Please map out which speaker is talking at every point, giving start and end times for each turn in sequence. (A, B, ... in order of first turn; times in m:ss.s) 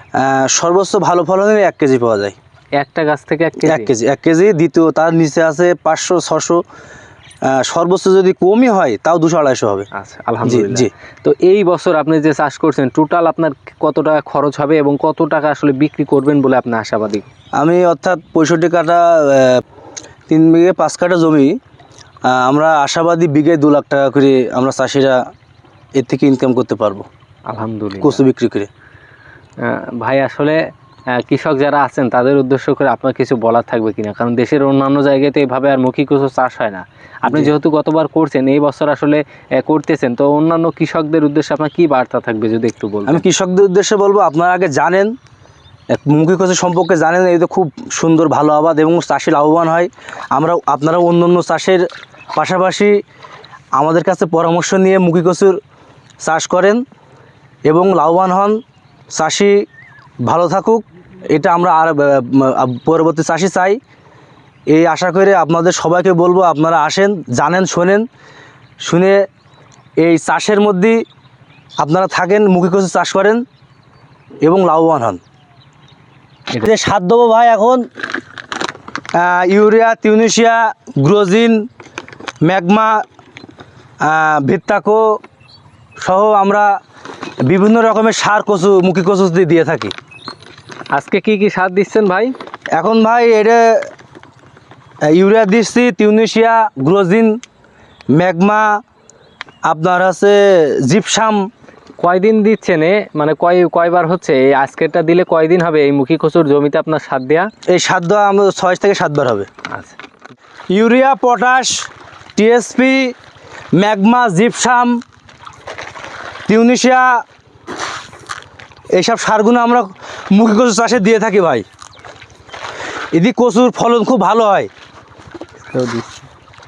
0:00.2-0:02.4 A
0:02.8-0:03.9 B
0:03.6-0:06.6 A
0:07.5-0:09.8 A
0:09.9-0:17.3 B
0:10.4-0:10.9 A
0:17.6-0:19.6 A
0:20.3-0:21.5 A
0:22.3-0:25.2 A
0:26.0-0:27.0 A
0:27.5-0:28.2 B
0:28.0-0:28.7 A
0:29.6-0:30.6 B
0:31.1-0:43.2 B
0:37.2-0:37.5 A
0:43.1-0:45.1 A
0:45.9-0:52.9 A
0:53.8-0:55.6 A
0:56.2-0:56.8 A
0:57.7-0:58.6 A
0:59.1-0:59.6 A
1:00.2-1:03.8 A
1:04.7-1:08.0 A
1:08.8-1:09.2 A
1:10.0-1:11.0 A
1:11.8-1:13.4 A
1:14.4-1:15.2 A
1:16.6-1:17.8 A
1:19.1-1:21.6 A
1:22.4-1:23.0 A
1:24.0-1:25.2 A
1:26.0-1:26.7 A
1:27.5-1:29.9 A
1:30.9-1:32.3 B
1:32.8-1:33.8 A
1:35.1-1:37.4 A
1:38.1-1:38.8 A
1:39.7-1:41.4 A
1:42.0-1:47.5 B
1:47.7-1:49.5 A
1:50.7-1:53.1 A
1:53.8-1:55.0 A
1:56.5-1:57.2 A
1:59.0-2:01.6 A
2:03.1-2:04.7 A
2:05.6-2:06.2 B